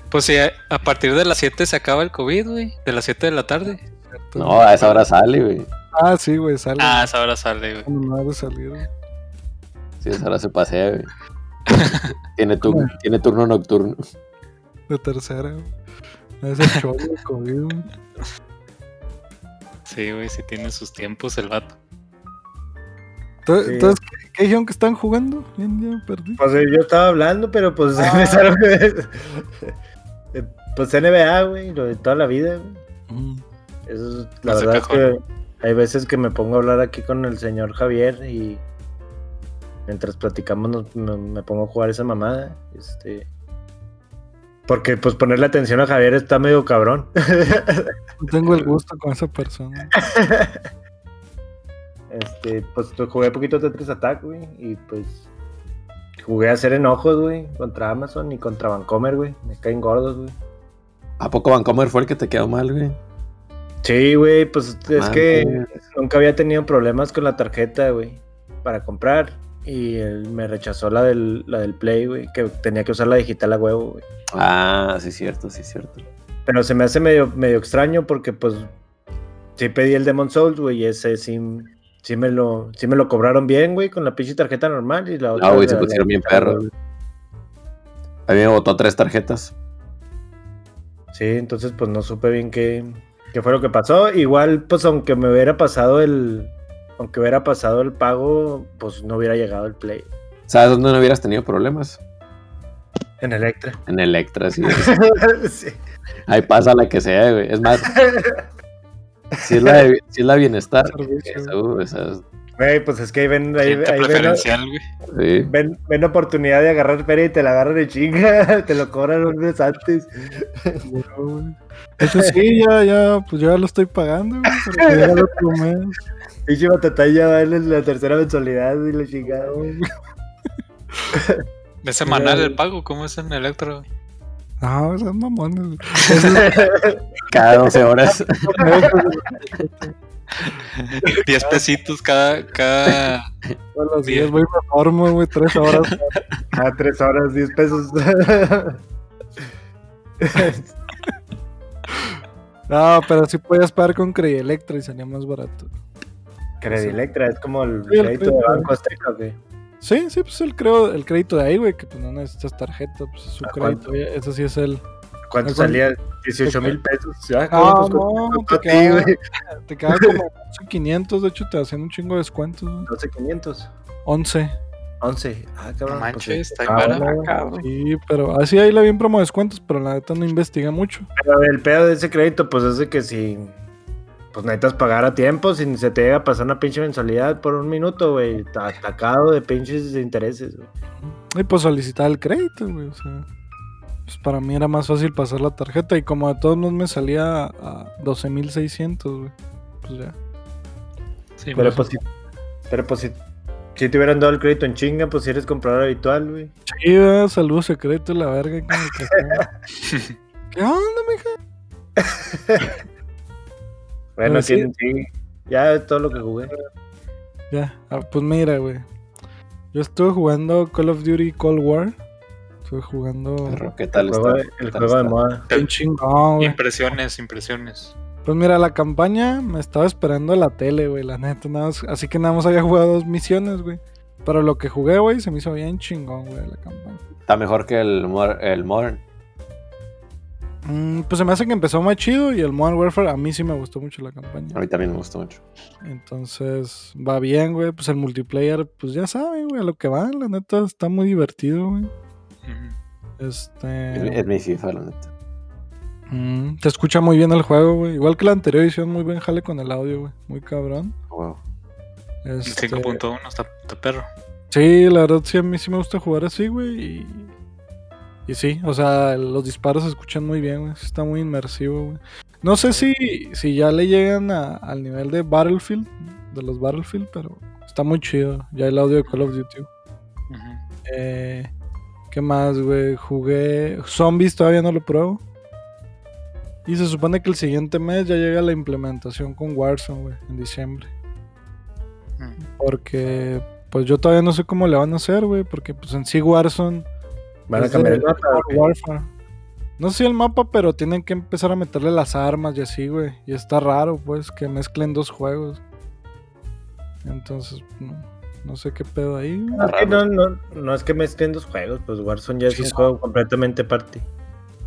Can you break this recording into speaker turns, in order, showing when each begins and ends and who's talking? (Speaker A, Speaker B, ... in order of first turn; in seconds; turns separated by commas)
Speaker A: 0.1-3.8, Speaker B: 3.9-4.7, Speaker C: 4.3-5.7, Speaker A: 4.8-5.0, Speaker B: 5.9-7.1, Speaker A: 6.8-7.9, Speaker B: 7.8-8.8, Speaker C: 10.0-11.1, Speaker A: 11.7-12.1, Speaker C: 12.3-14.0, Speaker B: 12.6-12.9, Speaker B: 14.9-15.7, Speaker B: 16.4-17.9, Speaker A: 19.9-21.8, Speaker B: 23.4-26.4, Speaker D: 23.6-24.0, Speaker D: 26.4-29.7, Speaker B: 28.0-28.5, Speaker D: 30.3-32.8, Speaker B: 33.1-33.4, Speaker D: 33.9-38.6, Speaker A: 34.5-35.1, Speaker D: 39.9-43.3, Speaker D: 44.7-47.9, Speaker B: 48.2-49.9, Speaker D: 50.0-50.6, Speaker D: 52.1-55.2, Speaker D: 56.2-60.4, Speaker C: 61.2-63.0, Speaker D: 63.8-74.0, Speaker C: 64.9-65.8, Speaker C: 74.3-76.0, Speaker D: 76.5-78.7, Speaker D: 79.6-86.7, Speaker C: 85.3-86.6, Speaker C: 88.3-89.5, Speaker D: 91.1-100.1, Speaker C: 100.5-102.0, Speaker D: 103.2-103.8, Speaker C: 103.9-104.9, Speaker D: 104.7-105.8, Speaker C: 106.3-107.9, Speaker D: 107.8-108.4, Speaker D: 109.3-109.8, Speaker C: 109.4-112.2, Speaker B: 110.8-111.5, Speaker D: 112.6-114.5, Speaker A: 113.6-114.8, Speaker C: 115.1-115.5, Speaker D: 115.4-120.8, Speaker B: 120.8-126.0, Speaker D: 122.0-122.3, Speaker D: 124.8-125.2, Speaker D: 126.5-129.6, Speaker B: 129.2-129.9, Speaker D: 131.1-131.4, Speaker A: 131.8-133.8, Speaker B: 132.1-132.6, Speaker B: 134.6-136.6, Speaker D: 136.3-137.0, Speaker C: 137.3-138.7, Speaker B: 138.3-140.5, Speaker A: 140.7-143.2, Speaker B: 141.0-141.6, Speaker C: 142.8-143.1, Speaker B: 143.7-146.2, Speaker A: 144.0-144.3, Speaker A: 145.6-146.2, Speaker D: 146.5-148.8, Speaker D: 150.2-150.7, Speaker B: 151.9-155.7, Speaker D: 156.6-159.4, Speaker B: 156.7-157.0, Speaker B: 157.9-158.7, Speaker B: 159.8-164.8, Speaker D: 163.4-163.8, Speaker D: 165.3-169.2, Speaker B: 165.4-165.8, Speaker B: 166.4-166.7, Speaker B: 167.5-172.9, Speaker D: 169.9-170.2, Speaker D: 172.9-173.7, Speaker B: 174.1-174.5, Speaker D: 175.0-177.3, Speaker A: 175.9-177.5, Speaker C: 177.2-177.5, Speaker B: 177.6-181.1, Speaker D: 181.2-183.5, Speaker D: 184.3-190.7, Speaker B: 191.0-193.2, Speaker B: 194.1-200.1, Speaker A: 201.4-201.7, Speaker B: 201.6-201.8, Speaker D: 201.6-202.0, Speaker D: 202.7-203.2, Speaker D: 203.8-206.5, Speaker B: 206.7-209.5, Speaker A: 209.9-210.1, Speaker B: 210.5-211.4, Speaker D: 212.0-212.7, Speaker D: 214.2-216.5, Speaker B: 214.2-214.7, Speaker B: 217.5-218.8, Speaker B: 219.7-221.9, Speaker B: 222.6-223.6, Speaker C: 223.4-225.2, Speaker D: 223.9-225.5, Speaker B: 225.5-226.6, Speaker A: 226.4-227.9, Speaker B: 228.2-237.0, Speaker C: 237.3-239.0, Speaker B: 240.6-244.6, Speaker C: 244.5-245.4, Speaker B: 245.8-251.9, Speaker A: 252.4-252.8, Speaker B: 253.2-254.2, Speaker C: 253.9-255.1, Speaker B: 256.1-260.9, Speaker C: 261.1-261.4, Speaker B: 262.2-263.0, Speaker A: 262.4-264.1, Speaker B: 264.5-267.3, Speaker B: 268.3-279.7, Speaker A: 272.6-272.9, Speaker A: 280.3-280.6, Speaker B: 280.8-281.5, Speaker B: 282.1-285.2, Speaker B: 286.6-290.9, Speaker B: 292.6-296.9, Speaker D: 297.5-298.7, Speaker B: 297.5-299.1, Speaker B: 299.8-305.6, Speaker B: 307.0-309.7, Speaker D: 309.5-314.1, Speaker C: 309.6-310.0, Speaker B: 312.5-312.9